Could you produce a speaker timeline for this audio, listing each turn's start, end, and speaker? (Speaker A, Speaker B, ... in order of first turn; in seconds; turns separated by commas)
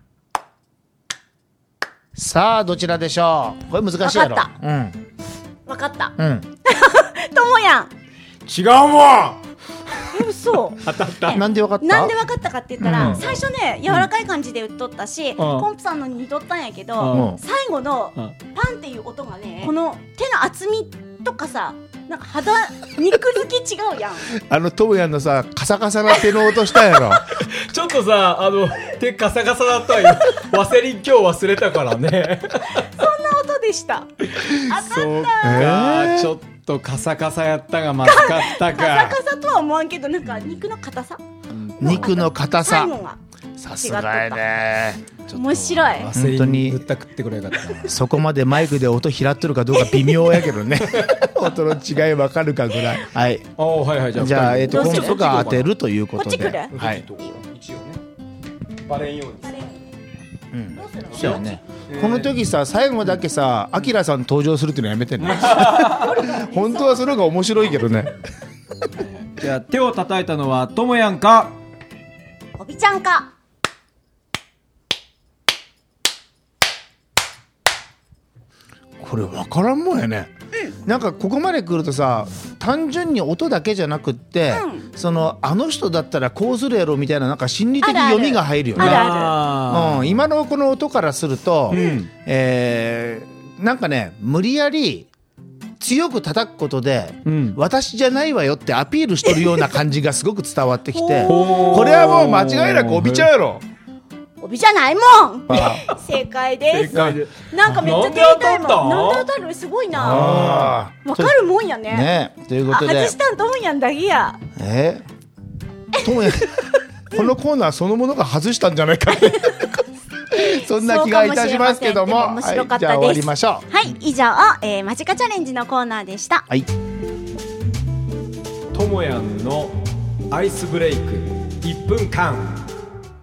Speaker A: 2.1-5.0, Speaker B: 4.0-4.5, Speaker B: 5.7-7.9, Speaker A: 6.2-6.5, Speaker C: 8.5-11.4, Speaker B: 10.1-24.4, Speaker A: 11.3-12.2, Speaker A: 12.8-13.3, Speaker C: 12.9-14.1, Speaker C: 15.4-15.7, Speaker C: 17.0-17.3, Speaker A: 17.1-17.4, Speaker A: 24.3-27.4, Speaker C: 27.3-32.9, Speaker B: 32.7-35.8, Speaker C: 34.6-39.2, Speaker A: 35.4-36.4, Speaker B: 38.0-41.2, Speaker C: 41.5-42.1, Speaker B: 41.8-43.2, Speaker A: 41.8-42.9, Speaker A: 43.6-45.0, Speaker B: 43.8-44.5, Speaker C: 45.2-48.0, Speaker B: 45.3-46.1, Speaker A: 46.1-46.8, Speaker A: 47.9-53.5, Speaker B: 49.7-50.5, Speaker C: 50.8-51.3, Speaker C: 53.6-55.7, Speaker A: 54.1-57.0, Speaker B: 54.7-55.5, Speaker B: 56.2-57.4, Speaker C: 56.7-58.0, Speaker C: 58.9-59.6, Speaker B: 59.4-59.9, Speaker A: 60.5-68.1, Speaker B: 60.8-61.5, Speaker C: 61.1-62.3, Speaker C: 65.2-66.3, Speaker B: 66.1-67.1, Speaker C: 69.0-71.6, Speaker B: 72.6-73.3, Speaker A: 79.0-80.3, Speaker A: 80.8-89.1, Speaker B: 84.5-84.9, Speaker B: 87.8-89.4, Speaker C: 88.8-90.3, Speaker A: 89.7-95.1, Speaker C: 91.7-92.1, Speaker B: 91.7-92.0, Speaker A: 95.8-103.6, Speaker C: 97.2-97.6, Speaker B: 100.9-102.0, Speaker C: 101.2-103.3, Speaker B: 104.4-110.4, Speaker A: 105.5-105.8, Speaker C: 105.5-105.8, Speaker C: 106.7-109.3, Speaker A: 110.0-111.3, Speaker C: 110.0-110.8, Speaker B: 111.0-112.1, Speaker A: 111.9-113.2, Speaker B: 112.7-114.4, Speaker A: 114.6-115.0, Speaker A: 116.0-123.7, Speaker B: 116.0-117.2, Speaker B: 119.3-119.7, Speaker B: 120.3-126.5, Speaker C: 128.7-129.8, Speaker C: 130.3-132.7